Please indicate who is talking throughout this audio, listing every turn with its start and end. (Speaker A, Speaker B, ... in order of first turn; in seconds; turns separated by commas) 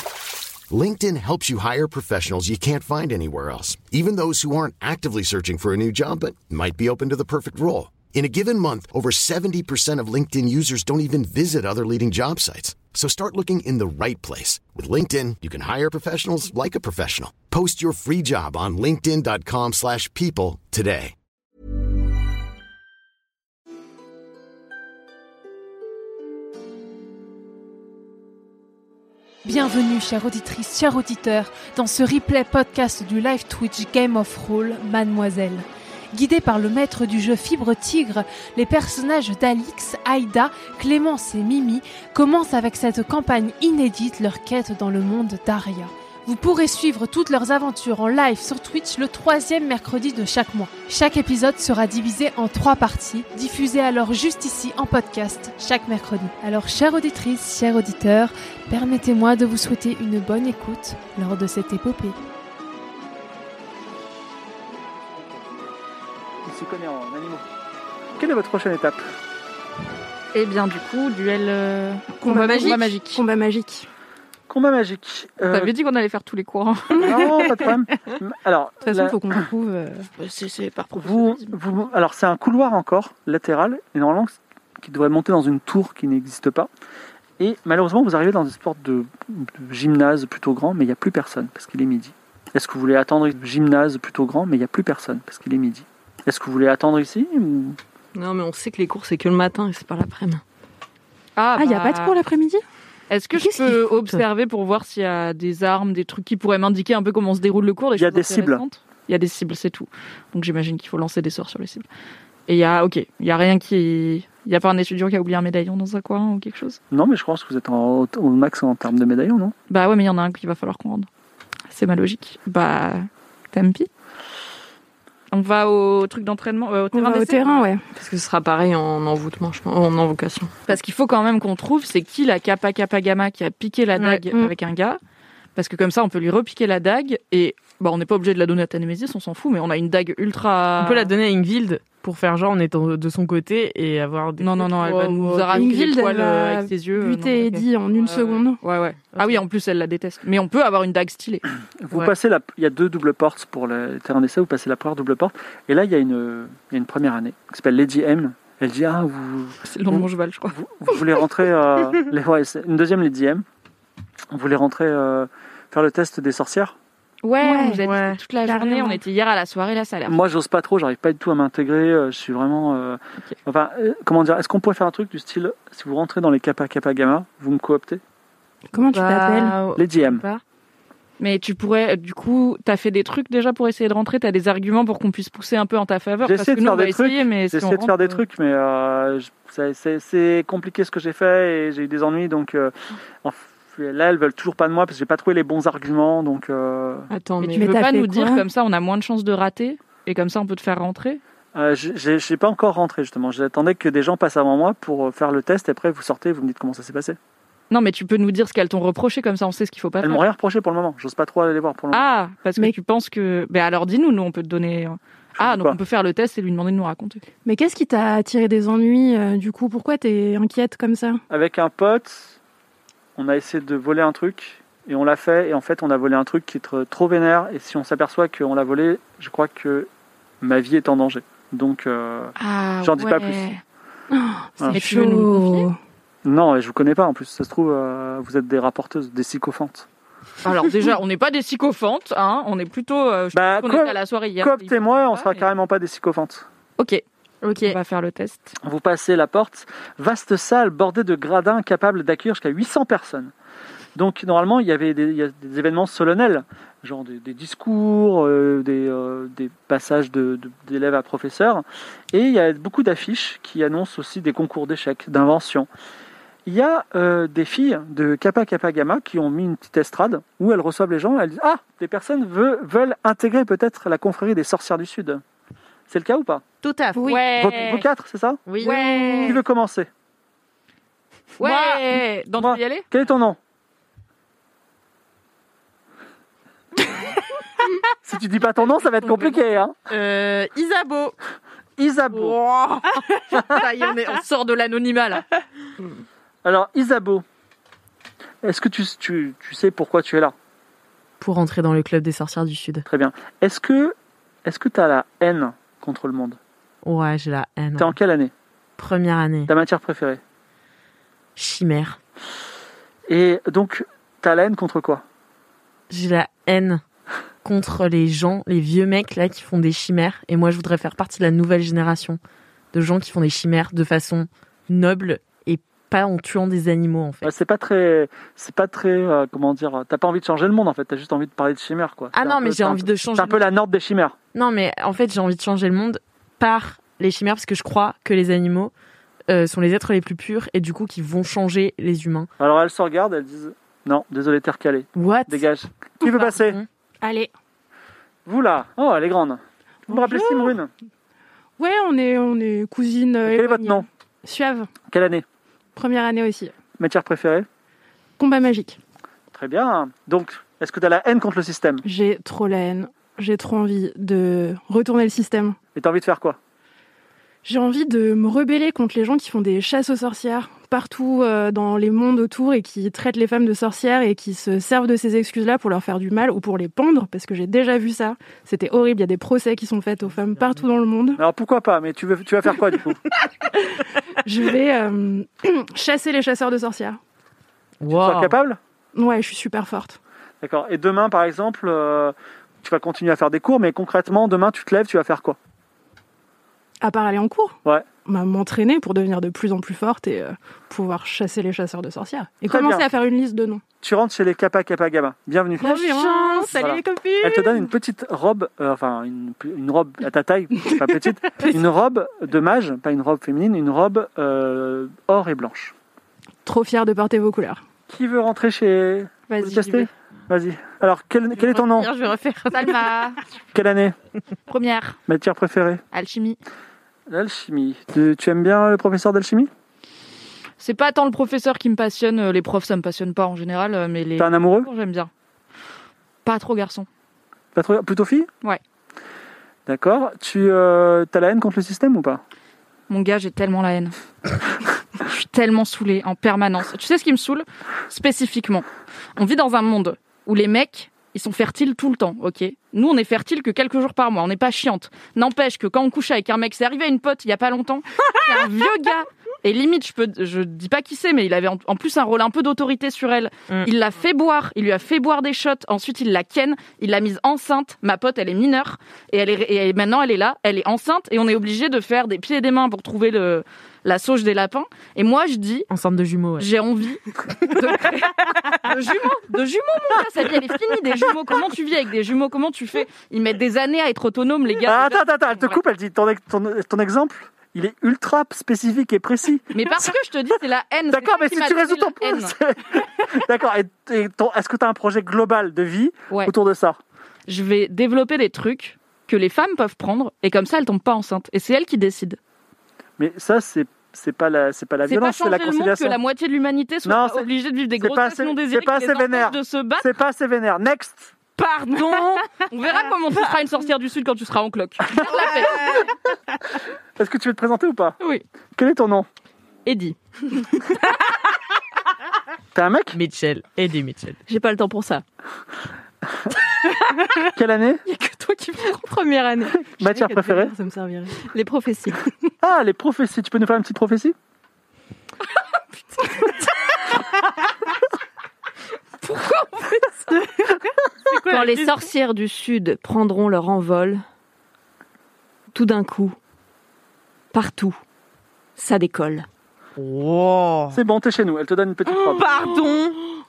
Speaker A: 0.7-21.1, Speaker B: 29.4-62.2, Speaker C: 65.2-65.4, Speaker C: 66.5-67.5, Speaker C: 68.2-69.0, Speaker D: 70.3-73.2, Speaker E: 72.2-73.9, Speaker C: 74.5-75.7, Speaker D: 75.5-77.3, Speaker E: 76.9-77.8, Speaker C: 77.0-79.4, Speaker E: 78.8-80.1, Speaker D: 80.2-81.5, Speaker C: 81.0-86.7, Speaker C: 87.4-97.8, Speaker F: 98.2-100.4, Speaker D: 101.4-102.2, Speaker E: 101.6-102.6, Speaker D: 103.1-111.8, Speaker C: 108.0-108.6, Speaker D: 112.5-116.8, Speaker C: 116.9-119.5, Speaker D: 119.7-121.1, Speaker D: 121.7-123.9, Speaker D: 125.3-127.6, Speaker E: 126.9-127.8, Speaker F: 127.9-130.6, Speaker D: 130.7-135.0, Speaker G: 134.0-134.2, Speaker D: 135.6-141.1, Speaker G: 140.8-145.8, Speaker D: 144.4-151.5, Speaker E: 145.5-148.6, Speaker C: 151.8-163.4, Speaker D: 159.7-160.6, Speaker C: 164.3-166.8, Speaker D: 167.2-170.2, Speaker E: 167.4-167.8, Speaker G: 167.8-168.2, Speaker E: 168.4-169.0, Speaker C: 170.1-178.0, Speaker E: 178.7-179.6, Speaker G: 178.9-180.4, Speaker C: 179.8-180.2, Speaker D: 181.2-188.2, Speaker C: 186.2-197.1, Speaker F: 197.1-197.9, Speaker D: 197.4-201.2, Speaker E: 197.6-198.4, Speaker C: 201.5-207.2, Speaker D: 207.7-210.2, Speaker C: 210.0-212.1, Speaker D: 211.9-217.2, Speaker C: 215.3-215.8, Speaker E: 217.4-221.2, Speaker C: 221.3-222.4, Speaker C: 223.2-229.9, Speaker C: 230.4-233.4, Speaker D: 232.4-233.6, Speaker E: 234.1-235.8, Speaker D: 234.7-235.7, Speaker C: 236.2-239.8, Speaker D: 240.4-245.4, Speaker C: 243.3-246.5, Speaker D: 246.8-247.0, Speaker G: 247.4-247.8, Speaker D: 247.6-248.6, Speaker C: 248.6-253.3, Speaker C: 253.9-265.7, Speaker C: 266.4-275.2, Speaker C: 275.9-276.4, Speaker G: 276.6-277.1, Speaker E: 276.9-277.2, Speaker D: 277.1-277.8, Speaker C: 277.4-278.4, Speaker G: 278.4-279.4, Speaker D: 278.6-279.4, Speaker C: 279.2-279.9, Speaker D: 281.4-282.9, Speaker G: 281.4-281.8, Speaker C: 282.4-283.4, Speaker C: 288.0-289.7, Speaker D: 289.1-289.4, Speaker G: 289.9-291.1, Speaker C: 291.8-292.4, Speaker G: 292.1-294.2, Speaker D: 293.5-295.2, Speaker C: 296.4-297.2, Speaker C: 298.4-300.3, Speaker G: 301.2-302.9, Speaker C: 302.9-306.4, Speaker G: 306.8-307.9, Speaker C: 307.8-308.3, Speaker G: 308.8-309.5, Speaker C: 309.5-310.2, Speaker G: 311.4-312.0, Speaker C: 313.1-315.0, Speaker G: 315.9-316.8, Speaker G: 317.4-322.2, Speaker G: 322.7-327.3, Speaker C: 327.2-334.2, Speaker G: 332.1-333.4, Speaker G: 334.3-338.7, Speaker G: 339.3-342.3, Speaker C: 342.4-346.6, Speaker G: 344.9-345.4, Speaker G: 346.0-346.6, Speaker E: 347.0-347.3, Speaker C: 348.2-350.7, Speaker E: 349.9-350.6, Speaker E: 351.6-354.7, Speaker C: 353.2-353.9, Speaker C: 354.9-355.2, Speaker E: 355.7-356.5, Speaker C: 356.8-357.5, Speaker E: 358.2-358.8, Speaker C: 359.3-361.8, Speaker E: 361.8-365.6, Speaker C: 365.7-366.4, Speaker E: 367.4-381.2, Speaker C: 381.1-383.0, Speaker E: 383.7-387.0, Speaker G: 387.8-388.3, Speaker C: 387.9-388.6, Speaker E: 388.9-390.0, Speaker C: 390.4-395.4, Speaker E: 396.8-403.6, Speaker C: 402.5-402.9, Speaker C: 403.8-405.9, Speaker G: 405.6-406.8, Speaker E: 405.6-407.7, Speaker C: 406.6-415.7, Speaker E: 416.4-417.6, Speaker C: 417.9-421.9, Speaker D: 419.3-419.9, Speaker G: 421.5-422.8, Speaker D: 422.5-423.2, Speaker C: 423.5-423.9, Speaker D: 424.5-425.0, Speaker C: 425.1-425.8, Speaker D: 425.9-426.4, Speaker C: 427.1-429.5, Speaker D: 430.6-435.1, Speaker C: 434.2-434.7, Speaker D: 436.2-436.9, Speaker C: 437.5-438.3, Speaker C: 439.6-442.2, Speaker D: 442.9-443.9, Speaker D: 445.0-475.7, Speaker G: 458.0-458.4, Speaker G: 475.7-476.5, Speaker D: 476.4-485.6, Speaker C: 484.6-489.9, Speaker D: 489.5-492.3, Speaker C: 490.9-496.8, Speaker D: 497.3-502.2, Speaker C: 503.0-506.0, Speaker D: 504.9-509.9, Speaker C: 506.8-511.1, Speaker D: 511.4-515.9, Speaker G: 511.7-512.2, Speaker C: 517.0-518.0, Speaker C: 518.6-519.1, Speaker D: 519.7-520.0, Speaker C: 522.5-523.0, Speaker G: 522.9-524.2, Speaker F: 524.3-525.0, Speaker C: 527.4-527.8, Speaker F: 528.1-529.6, Speaker C: 529.7-530.5, Speaker E: 529.8-531.2, Speaker F: 531.2-532.0, Speaker C: 532.4-534.1, Speaker D: 539.0-540.2, Speaker G: 541.1-541.9, Speaker F: 541.1-544.0, Speaker F: 545.5-546.2, Speaker F: 547.3-547.8, Speaker F: 548.6-549.3, Speaker G: 549.8-550.8, Speaker C: 550.7-552.3, Speaker G: 551.9-553.0